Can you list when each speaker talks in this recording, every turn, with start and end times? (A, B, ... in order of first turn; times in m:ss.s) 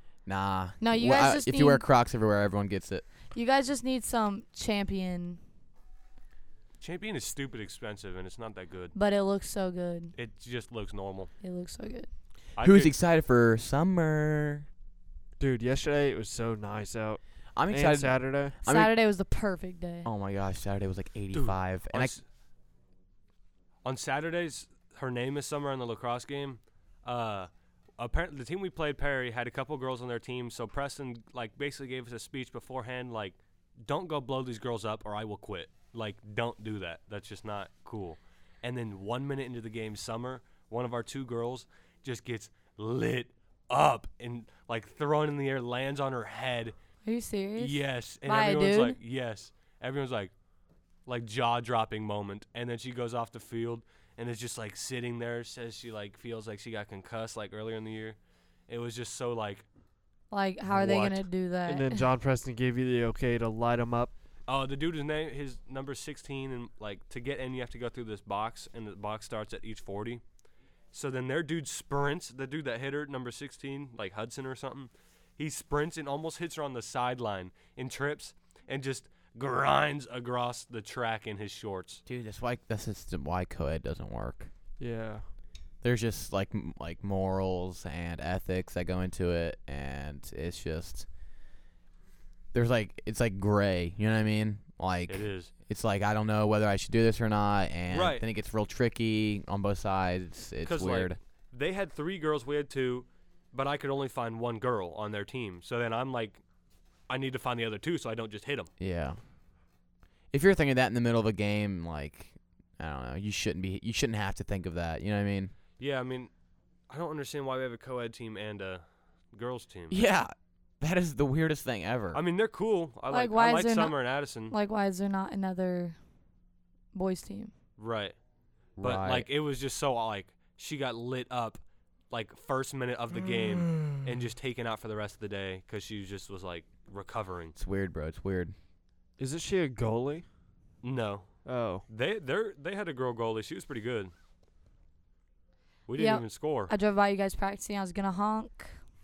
0:00.2-0:03.0 A
0:00.8-0:01.8 B
0:03.3-0:05.4 B
0:06.8-0:08.9 C
0:08.9-0:10.1 B
0:10.1-0:11.3 C
0:11.4-0:12.1 B
0:12.6-0:13.0 C
0:12.6-0:14.7 A
0:15.4-0:18.5 D
0:17.5-0:18.9 A
0:18.6-0:20.1 B
0:20.0-0:22.2 A
0:21.3-0:22.2 C
0:23.8-0:46.7 C
0:47.0-0:49.0 B
0:47.6-0:50.3 C
0:51.0-0:58.2 C
0:58.7-0:59.6 C
1:00.3-1:02.1 B
1:00.8-1:01.1 C
1:01.6-1:04.1 D
1:04.5-1:10.2 C
1:10.9-1:22.0 C
1:22.0-1:24.5 A
1:24.8-1:25.2 D
1:25.8-1:31.0 A
1:32.5-1:41.2 A
1:35.1-1:35.5 C
1:37.9-1:38.2 C
1:40.6-1:46.4 C
1:47.1-1:48.7 C
1:48.8-1:49.2 A
1:50.3-1:55.5 A
1:55.8-1:56.3 C
1:56.9-2:00.0 C
1:59.9-2:02.2 A
2:02.1-2:04.5 C
2:03.1-2:06.0 B
2:06.9-2:07.5 B
2:07.8-2:08.2 C
2:08.8-2:09.3 A
2:08.8-2:17.5 C
2:17.6-2:18.5 A
2:19.2-2:20.2 D
2:20.8-2:21.3 C
2:21.4-2:21.8 D
2:21.9-2:24.1 C
2:25.9-2:26.7 C
2:26.0-2:28.8 B